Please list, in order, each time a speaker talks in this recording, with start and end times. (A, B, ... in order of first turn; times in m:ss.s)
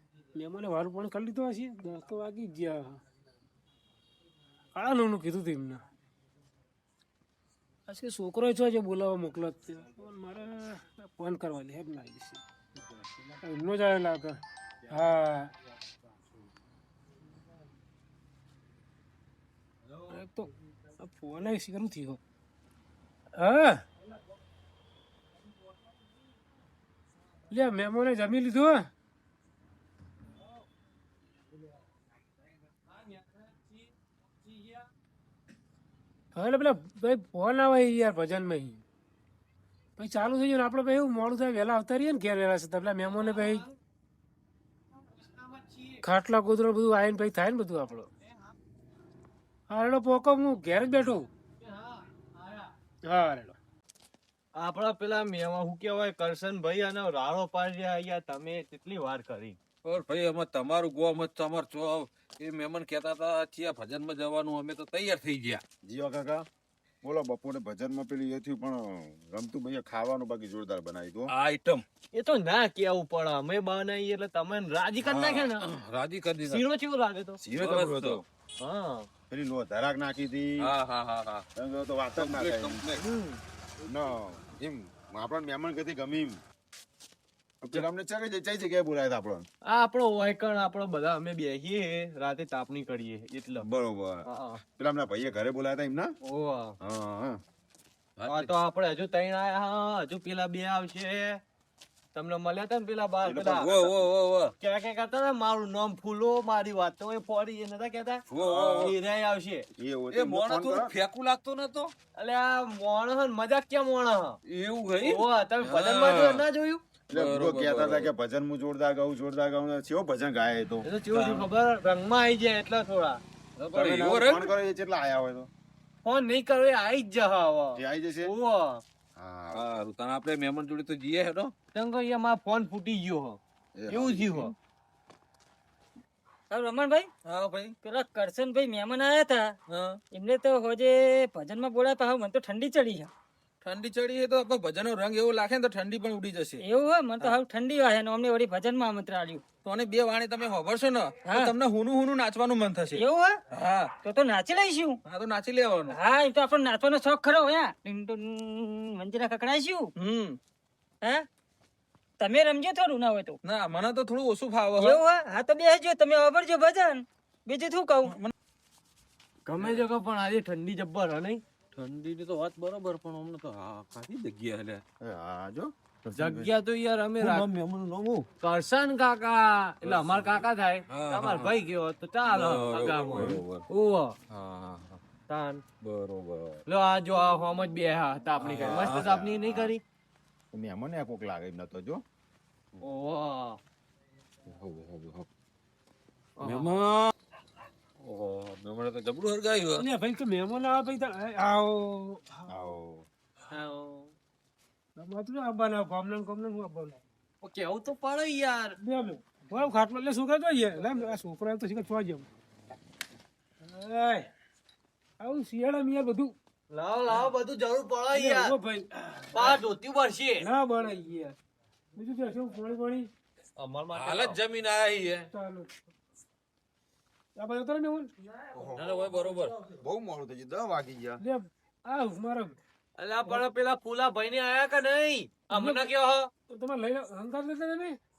0:00.4-0:03.0 A
0:04.8-0:05.8 A
0:07.9-0:12.4 A
0:13.4-0:15.5 A
0:20.1-0:22.2 A
0:23.4-0:23.8 A
0:27.5-0:28.9 A
0:36.4-0:38.8 A
0:40.0-0:43.7 A
0:45.4-0:46.0 B
0:46.0-0:48.1 A
0:49.7-0:51.3 A
0:51.6-0:51.9 B
0:53.1-0:53.6 A
0:54.6-0:59.6 B
0:59.8-1:05.6 C
1:05.8-1:06.5 D
1:07.0-1:11.3 D
1:11.3-1:11.8 C
1:12.1-1:15.6 B
1:15.1-1:16.6 C
1:16.5-1:17.4 B
1:17.4-1:18.2 D
1:17.6-1:18.2 C
1:18.6-1:19.1 B
1:19.3-1:20.7 D
1:20.6-1:21.4 C
1:21.6-1:23.0 D
1:22.2-1:23.0 C
1:23.0-1:23.4 B
1:23.9-1:26.4 D
1:27.6-1:29.5 D
1:29.7-1:33.7 B
1:33.6-1:36.1 D
1:34.3-1:34.6 B
1:36.2-1:36.8 B
1:36.8-1:37.4 D
1:38.2-1:38.5 C
1:38.3-1:41.4 B
1:42.1-1:43.7 B
1:43.2-1:43.9 D
1:43.5-1:44.5 C
1:44.6-1:49.7 B
1:48.3-1:48.9 C
1:49.8-1:50.9 D
1:50.1-1:51.9 C
1:52.2-1:54.4 B
1:54.5-1:56.4 C
1:55.0-1:56.8 B
1:57.1-1:58.1 C
1:57.1-2:00.9 D
2:00.8-2:04.1 B
2:01.1-2:01.5 C
2:03.7-2:04.5 C
2:03.7-2:05.5 D
2:06.0-2:08.8 B
2:07.8-2:08.3 D
2:09.2-2:09.7 D
2:09.6-2:11.5 C
2:11.7-2:14.5 B
2:13.8-2:14.5 D
2:16.5-2:17.1 E
2:17.2-2:17.8 C
2:17.8-2:19.5 E
2:19.7-2:20.0 C
2:20.1-2:23.1 E
2:23.6-2:26.6 C
2:26.6-2:29.4 E
2:29.6-2:33.9 C
2:31.3-2:31.6 E
2:32.9-2:33.4 E
2:34.0-2:35.0 E
2:35.0-2:36.0 C
2:35.9-2:39.9 E
2:40.0-2:40.4 C
2:42.2-2:43.4 E
2:43.4-2:45.0 C
2:44.8-2:48.2 E
2:48.1-2:48.3 C
2:49.5-2:51.4 B
2:51.8-2:54.8 C
2:55.0-2:55.7 D
2:56.1-2:57.5 B
2:57.2-2:58.3 C
2:58.4-3:04.2 B
2:59.8-3:01.6 C
3:02.3-3:03.6 C
3:04.3-3:05.0 C
3:05.3-3:05.6 B
3:05.8-3:06.6 C
3:06.7-3:09.8 B
3:08.4-3:09.1 C
3:08.6-3:09.7 D
3:10.5-3:12.0 D
3:12.8-3:13.6 B
3:14.5-3:15.3 C
3:16.4-3:16.7 B
3:16.4-3:17.1 C
3:18.0-3:19.9 C
3:19.8-3:22.5 A
3:22.5-3:23.1 D
3:23.5-3:24.1 B
3:25.0-3:27.0 A
3:27.4-3:28.8 B
3:28.8-3:32.3 A
3:33.6-3:34.3 A
3:35.2-3:36.3 A
3:36.7-3:38.6 B
3:38.1-3:39.6 A
3:39.3-3:40.5 B
3:40.4-3:41.4 A
3:42.0-3:43.1 A
3:43.6-3:44.4 B
3:44.0-3:45.3 C
3:45.3-3:45.7 A
3:47.4-3:48.1 A
3:48.5-3:49.1 D
3:48.7-3:49.6 C
3:49.8-3:51.2 D
3:51.2-3:52.6 A
3:53.0-3:56.3 B
3:55.5-3:55.8 A
3:56.5-3:58.0 A